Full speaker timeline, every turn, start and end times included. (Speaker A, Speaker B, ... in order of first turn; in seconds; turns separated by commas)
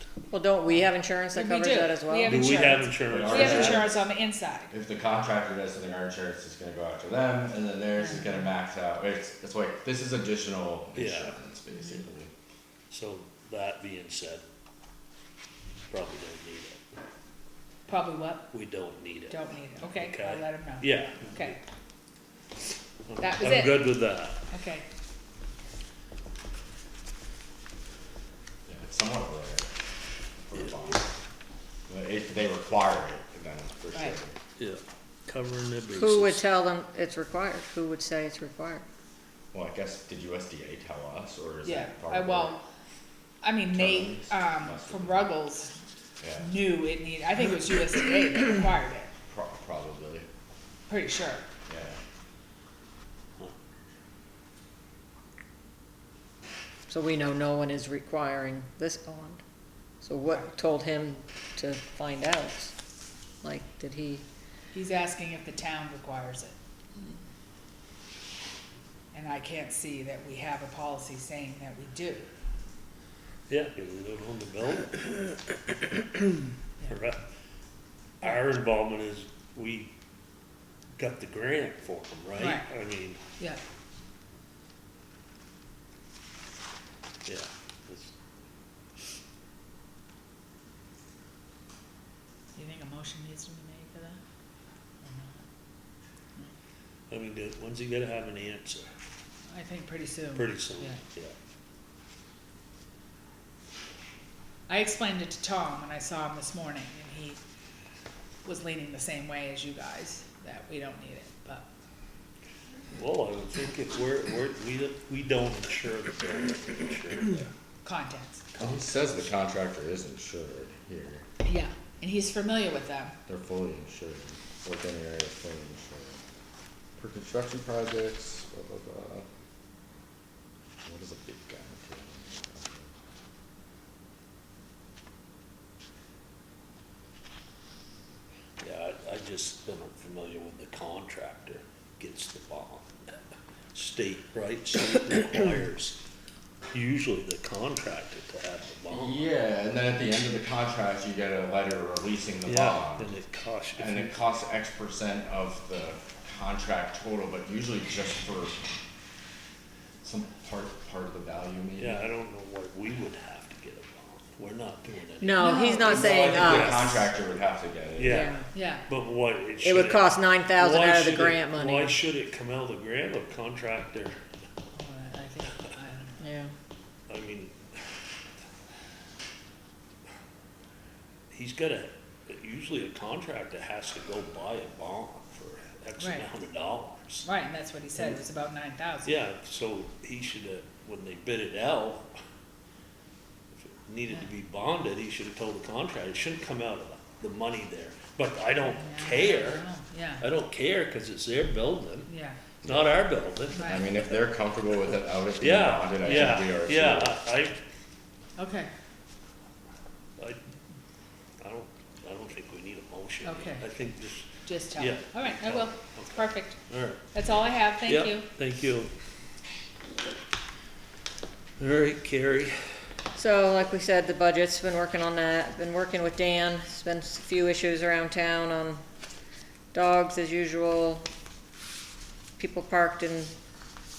Speaker A: 0.3-2.5, Speaker B: 1.3-4.7, Speaker C: 2.2-3.9, Speaker D: 3.1-3.9, Speaker D: 4.7-12.3, Speaker C: 10.9-11.4, Speaker C: 12.9-14.4, Speaker C: 15.9-16.8, Speaker B: 17.9-18.5, Speaker C: 18.5-21.6, Speaker B: 19.3-21.6, Speaker C: 23.1-24.4, Speaker B: 23.2-23.9, Speaker B: 24.5-24.8, Speaker D: 28.7-29.7, Speaker D: 30.5-31.1, Speaker D: 31.9-34.4, Speaker C: 34.6-36.5, Speaker A: 35.9-38.8, Speaker D: 39.5-42.5, Speaker B: 41.6-42.6, Speaker B: 43.4-45.7, Speaker D: 43.7-45.3, Speaker D: 46.2-46.5, Speaker B: 46.4-49.1, Speaker D: 49.3-50.3, Speaker B: 50.9-51.4, Speaker D: 51.7-52.0, Speaker A: 56.9-59.4, Speaker A: 60.0-62.7, Speaker A: 63.4-64.2, Speaker B: 64.7-66.5, Speaker B: 69.1-72.2, Speaker C: 73.5-75.4, Speaker C: 76.8-77.2, Speaker C: 78.2-79.9, Speaker C: 81.0-83.2, Speaker B: 82.3-82.7, Speaker C: 87.2-88.1, Speaker B: 92.5-94.2, Speaker B: 95.0-95.4, Speaker C: 97.1-98.8, Speaker B: 99.5-101.0, Speaker C: 100.3-101.3, Speaker B: 104.7-107.4, Speaker B: 108.4-111.7, Speaker C: 112.9-117.5, Speaker B: 117.8-118.5, Speaker D: 118.6-121.2, Speaker B: 121.4-123.2, Speaker D: 123.3-126.2, Speaker D: 127.0-129.2, Speaker D: 130.8-132.9, Speaker C: 138.6-142.9, Speaker C: 143.7-146.0, Speaker C: 146.7-149.3, Speaker D: 148.9-153.1, Speaker C: 152.4-154.1, Speaker D: 153.8-158.6, Speaker D: 160.0-162.0, Speaker C: 161.8-167.1, Speaker A: 165.2-166.9, Speaker B: 165.4-166.4, Speaker D: 165.8-168.3, Speaker C: 168.0-174.1, Speaker A: 168.0-168.4, Speaker B: 168.5-168.8, Speaker A: 169.6-172.0, Speaker B: 174.7-176.2, Speaker A: 176.2-176.5, Speaker C: 177.1-178.0, Speaker C: 181.3-187.3, Speaker B: 186.0-186.3, Speaker B: 187.2-189.2, Speaker C: 189.0-192.1, Speaker C: 193.5-199.7, Speaker B: 198.7-200.2, Speaker C: 200.2-202.1, Speaker B: 202.1-202.4, Speaker D: 202.6-202.9, Speaker C: 202.6-203.8, Speaker B: 203.5-203.9, Speaker D: 203.6-207.2, Speaker C: 205.4-207.6, Speaker B: 208.4-208.7, Speaker C: 211.4-217.2, Speaker B: 213.2-213.7, Speaker B: 214.4-216.6, Speaker B: 217.1-218.3, Speaker C: 217.8-218.9, Speaker C: 221.6-222.6, Speaker A: 223.2-228.8, Speaker A: 229.7-231.0, Speaker A: 232.4-233.3